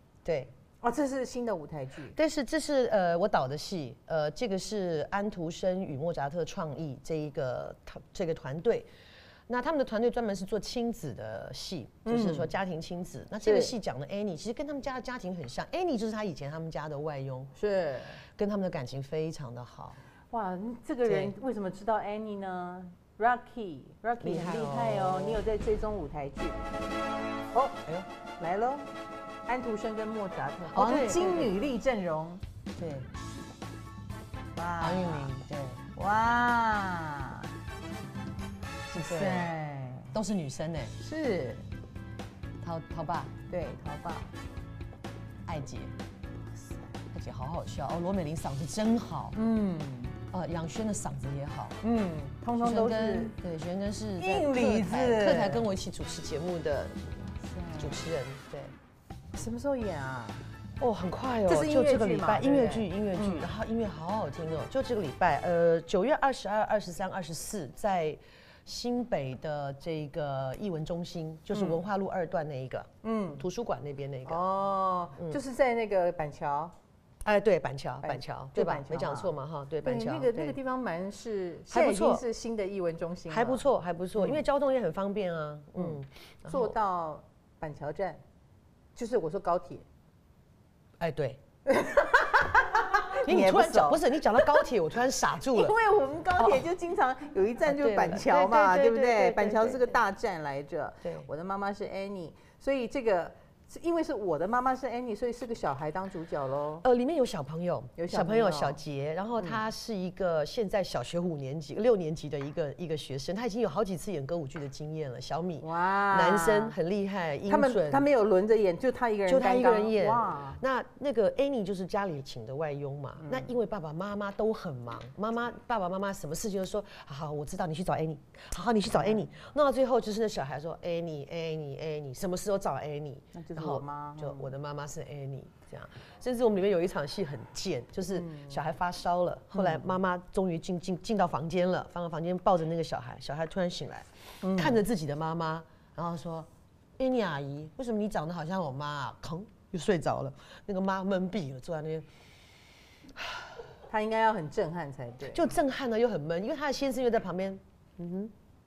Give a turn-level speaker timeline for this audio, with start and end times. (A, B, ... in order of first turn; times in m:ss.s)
0:00.2-0:00.5 A
0:00.8-0:02.2 B
0:02.1-0:08.9 A
0:09.5-0:17.5 A
0:12.0-0:12.5 B
0:13.4-0:13.7 B
0:17.6-0:18.2 B
0:18.4-0:20.0 A
0:20.3-0:26.6 B
0:21.0-0:21.3 A
0:24.2-0:25.4 A
0:27.5-0:27.8 B
0:28.4-0:28.9 B
0:29.5-0:32.4 B
0:30.7-0:31.5 A
0:32.8-0:33.1 A
0:34.6-0:35.3 B
0:34.8-0:35.9 A
0:36.0-0:37.5 B
0:38.9-0:40.1 B
0:38.9-0:39.5 A
0:40.1-0:41.0 A
0:41.0-0:41.7 B
0:42.6-0:43.4 A
0:43.5-0:44.3 B
0:45.5-0:45.9 A
0:46.6-0:46.9 B
0:47.1-0:49.4 A
0:49.4-0:50.2 B
0:50.3-0:51.8 A
0:51.8-0:53.4 B
0:52.6-0:58.8 A
0:54.2-0:55.7 B
0:57.4-0:58.0 B
0:59.3-1:00.5 B
1:00.8-1:14.4 A
1:01.5-1:03.5 B
1:11.5-1:11.8 B
1:13.0-1:13.4 B
1:14.3-1:16.7 B
1:17.2-1:20.6 A
1:18.0-1:23.6 B
1:21.7-1:22.2 A
1:23.3-1:26.8 A
1:25.8-1:28.2 B
1:29.0-1:29.8 B
1:31.0-1:31.4 A
1:31.7-1:34.6 B
1:33.2-1:35.8 A
1:35.5-1:46.8 B
1:36.4-1:36.7 A
1:37.6-1:40.0 A
1:41.0-1:41.3 A
1:46.8-1:58.0 A
1:48.0-1:48.8 B
1:49.4-1:49.6 B
1:55.6-1:56.8 B
1:57.5-2:00.6 B
1:59.3-2:32.1 A
2:03.2-2:03.5 B
2:09.0-2:09.2 B
2:13.4-2:14.5 B
2:18.1-2:18.6 B
2:19.5-2:19.9 B
2:24.4-2:24.8 B
2:33.2-2:33.4 A
2:33.9-2:35.5 B
2:35.3-2:38.3 A